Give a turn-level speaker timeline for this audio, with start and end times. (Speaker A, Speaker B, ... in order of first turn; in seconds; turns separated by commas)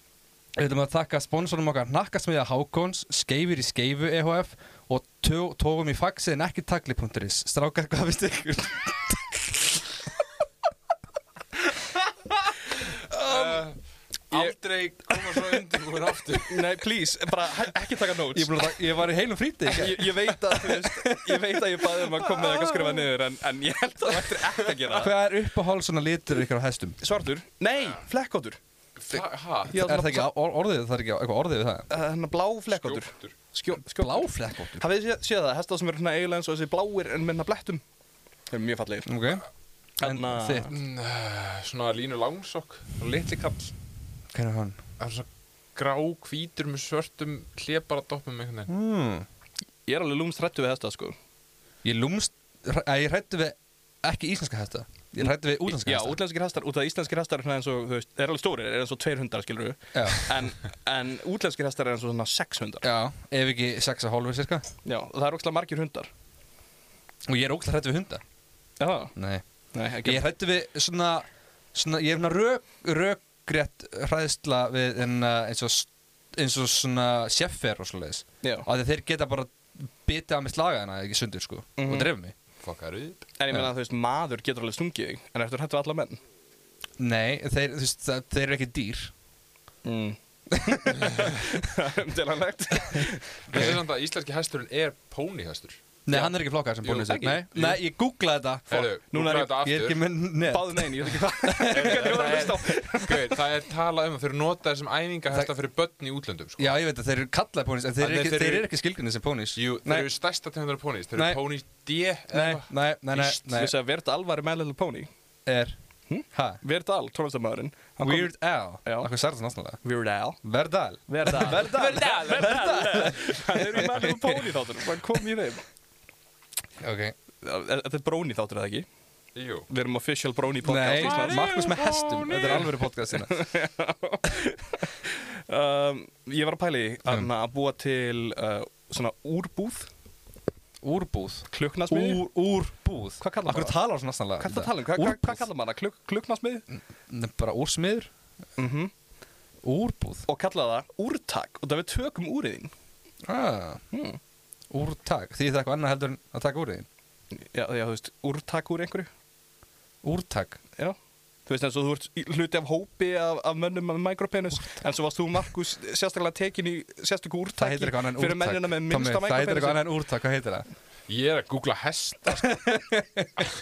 Speaker A: 0.6-9.8, Speaker B: 12.8-13.8, Speaker C: 13.1-13.6, Speaker B: 14.3-16.7, Speaker C: 16.4-18.7, Speaker A: 18.3-22.9, Speaker C: 19.6-25.1, Speaker A: 24.9-27.0, Speaker C: 27.0-28.6, Speaker B: 29.0-29.8, Speaker C: 29.7-30.3, Speaker A: 29.7-31.9, Speaker C: 31.9-37.8, Speaker B: 32.7-33.3, Speaker A: 33.9-34.8, Speaker C: 38.5-39.2, Speaker A: 39.0-39.4, Speaker A: 40.0-40.7, Speaker C: 40.0-40.7, Speaker B: 40.7-43.7, Speaker A: 44.3-44.8, Speaker B: 45.0-48.7, Speaker A: 48.7-49.3, Speaker C: 49.9-51.1, Speaker A: 51.8-56.2, Speaker C: 55.2-62.8, Speaker A: 59.9-60.3, Speaker A: 62.8-64.7, Speaker C: 64.8-66.1, Speaker A: 67.2-68.2, Speaker C: 68.8-69.1, Speaker A: 69.2-69.4, Speaker C: 69.7-70.3, Speaker A: 70.0-82.3, Speaker C: 81.8-82.1, Speaker B: 82.6-83.2, Speaker C: 83.4-86.2, Speaker A: 87.0-89.1, Speaker C: 89.8-93.3, Speaker A: 90.6-91.0, Speaker B: 93.5-95.8, Speaker A: 96.1-102.8, Speaker C: 96.8-97.5, Speaker B: 96.8-97.8, Speaker B: 98.7-100.0, Speaker C: 100.5-103.2, Speaker B: 101.7-106.7, Speaker A: 106.6-110.1, Speaker B: 108.0-108.7, Speaker B: 109.5-112.7, Speaker A: 111.1-111.4, Speaker A: 112.3-113.7, Speaker C: 113.2-115.1, Speaker A: 115.5-115.8, Speaker C: 116.1-119.1, Speaker A: 116.3-116.6, Speaker A: 118.0-119.8, Speaker C: 119.8-120.4, Speaker A: 120.4-124.4, Speaker C: 121.1-125.6, Speaker B: 121.6-123.1, Speaker A: 126.8-127.1, Speaker C: 127.4-128.8, Speaker B: 129.3-129.7, Speaker C: 129.7-131.4, Speaker A: 130.6-133.4, Speaker B: 130.9-132.9, Speaker C: 133.1-139.9, Speaker A: 140.8-145.4, Speaker C: 141.5-142.2, Speaker C: 143.2-143.8, Speaker C: 144.4-146.6, Speaker A: 147.1-148.1, Speaker C: 148.6-148.9, Speaker A: 149.6-150.2, Speaker C: 150.3-152.7, Speaker A: 153.2-153.8, Speaker C: 153.9-154.2, Speaker A: 154.7-156.9, Speaker C: 157.3-159.1, Speaker A: 160.0-160.6, Speaker C: 160.8-169.8, Speaker A: 167.6-170.7, Speaker B: 171.1-172.6, Speaker A: 172.3-173.5